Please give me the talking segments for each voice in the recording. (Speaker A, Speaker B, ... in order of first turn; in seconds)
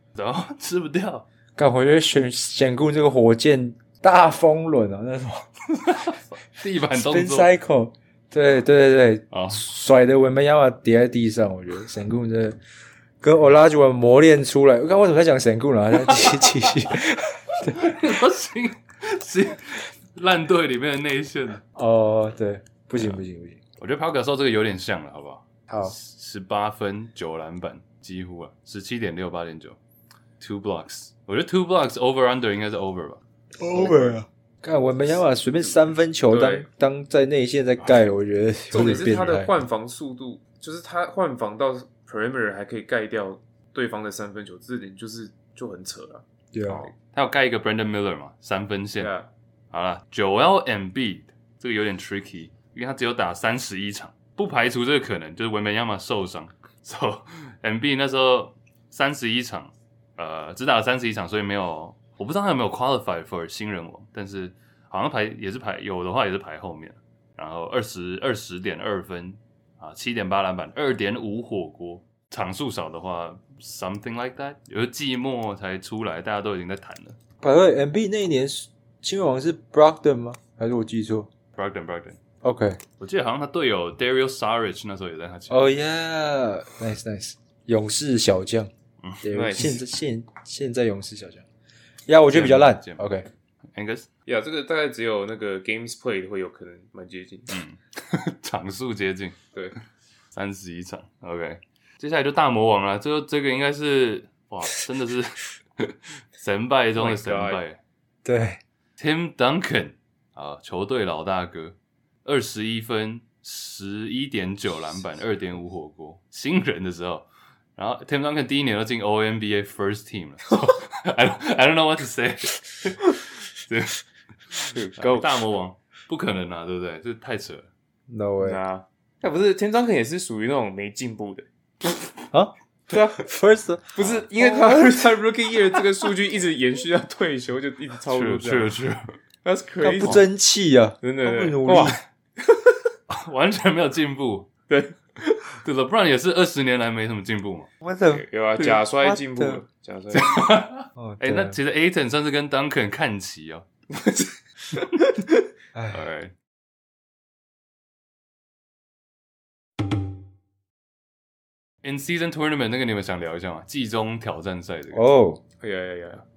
Speaker A: 0.1-1.2, 5.7-7.5, 9.3-9.6, 16.1-16.7, 17.6-21.6, 23.0-23.2, 23.8-29.8, 30.4-33.2, 47.0-49.1, 49.7-77.2, 81.5-82.2, 83.0-85.7, 92.3-93.0, 93.7-94.1, 97.5-99.4, 100.3-107.8, 109.0-127.7, 138.1-139.1, 143.1-144.5, 145.6-147.7, 150.1-153.7, 155.9-156.3, 161.8-165.1
Speaker B: 1.6-5.5, 6.9-12.6, 13.2-17.8, 21.7-23.6, 25.7-25.9, 33.6-39.5, 46.5-46.9, 77.4-81.3, 82.4-82.8, 85.5-88.7, 89.2-91.4, 92.1-93.2, 108.2-108.6, 128.1-128.6, 133.2-135.1, 139.8-142.0, 147.8-148.2, 148.8-149.6, 150.9-151.6, 155.7-156.0, 164.9-165.4
Speaker C: 33.7-34.1, 36.3-36.7, 38.7-46.9, 49.0-49.3, 89.3-89.8, 94.2-97.6, 106.9-107.6, 124.7-125.4, 128.4-131.5, 132.9-133.2, 133.9-138.7, 139.4-140.2, 141.0-142.8, 144.7-145.5, 148.1-150.4, 153.9-155.4, 165.6-166.2